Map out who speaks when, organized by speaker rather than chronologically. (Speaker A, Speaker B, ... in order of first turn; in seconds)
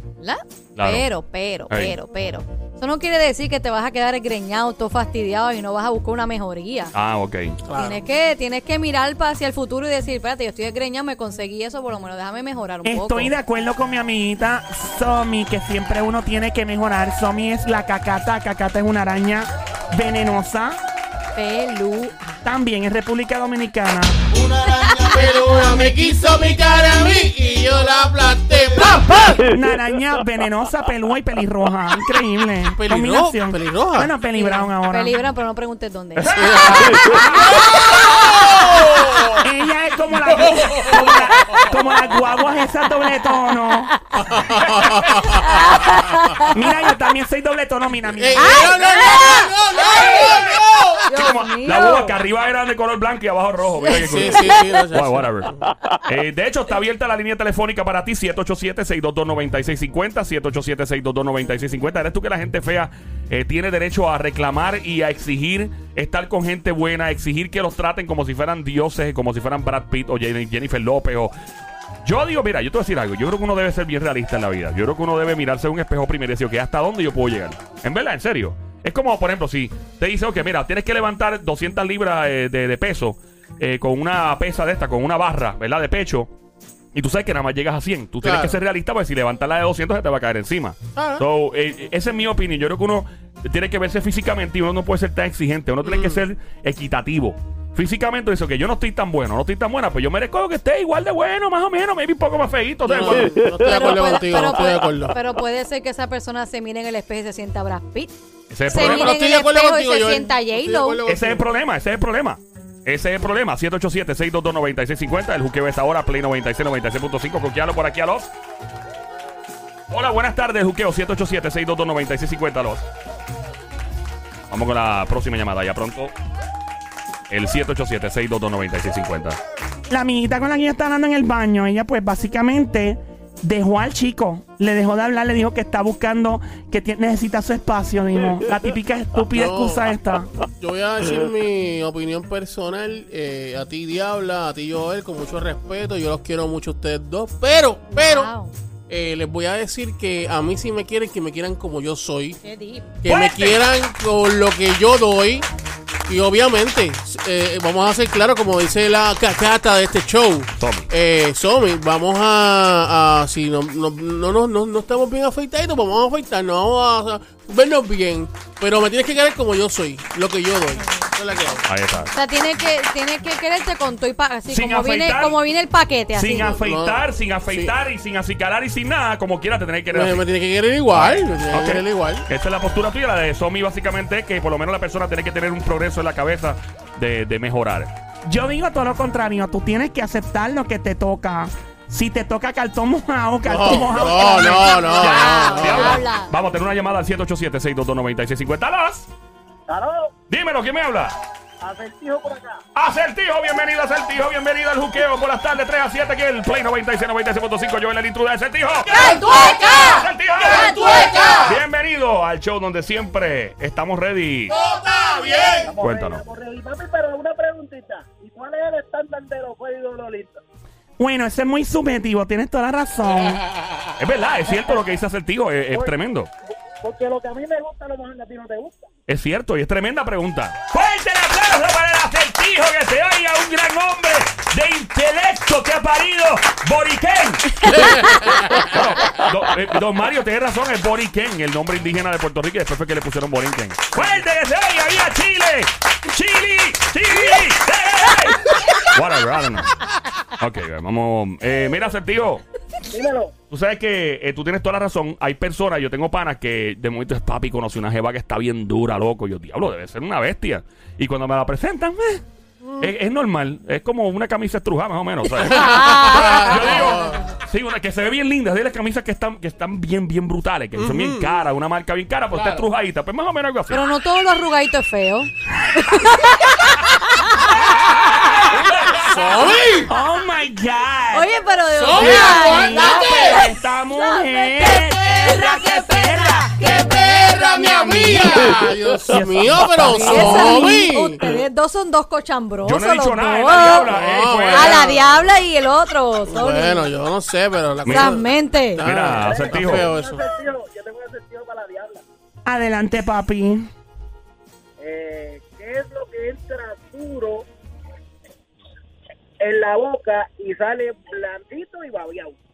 Speaker A: 0.2-6.9, 7.7-13.3, 21.4-22.2, 24.6-25.1, 34.3-37.1, 45.3-46.5, 48.6-49.5, 51.1-52.2, 53.9-54.8, 103.6-108.1, 108.7-111.0, 147.9-148.5, 152.4-152.9, 172.1-176.4, 195.1-196.3, 209.0-210.0, 210.6-211.4, 265.6-266.9, 273.7-277.5, 281.1-288.5, 289.9-293.9, 294.4-296.9, 297.9-298.9
Speaker B: 0.8-1.1, 1.7-2.0, 6.9-7.6, 36.2-37.9, 51.1-71.3, 72.0-86.3, 86.9-103.3, 108.5-109.2, 111.0-118.3, 119.9-122.8, 124.5-126.1, 127.3-129.4, 153.0-153.6, 160.6-160.9, 171.7-172.1, 174.5-175.4, 176.1-180.2, 180.9-187.9, 194.9-199.1, 200.3-201.2, 202.7-214.6, 215.8-216.2, 224.0-226.3, 229.1-237.6, 238.3-249.7, 250.4-252.4, 253.5-262.2, 262.8-273.8, 278.5-279.1, 292.6-294.9, 297.9-298.2, 298.8-299.9
Speaker C: 7.6-8.0, 25.0-29.4, 32.7-34.2, 36.3-37.6, 38.3-39.4, 40.4-40.9, 44.1-45.9, 48.1-51.1, 53.8-55.7, 88.2-88.6, 90.9-91.2, 95.8-96.2, 102.8-105.2, 108.7-111.5, 139.3-148.3, 148.9-152.4, 153.0-155.5, 156.1-171.7, 176.3-177.7, 179.9-182.2, 193.4-196.1, 214.7-215.7, 237.8-238.4, 265.6-267.3, 270.8-271.4, 272.3-272.6, 279.0-279.9, 281.7-283.3, 286.6-291.4, 293.8-295.1, 296.2-300.2
Speaker D: 12.8-20.8, 22.4-24.1, 29.1-35.2, 39.4-43.9, 46.4-48.8, 129.9-140.3, 188.3-195.2, 221.0-223.4, 279.9-281.3, 281.8-286.9, 287.8-288.4, 289.1-290.8, 302.4-303.7
Speaker E: 199.7-200.1, 201.6-202.6, 215.6-220.4, 226.8-228.8, 252.9-253.3, 299.0-302.0, 304.8-307.4, 309.4-312.4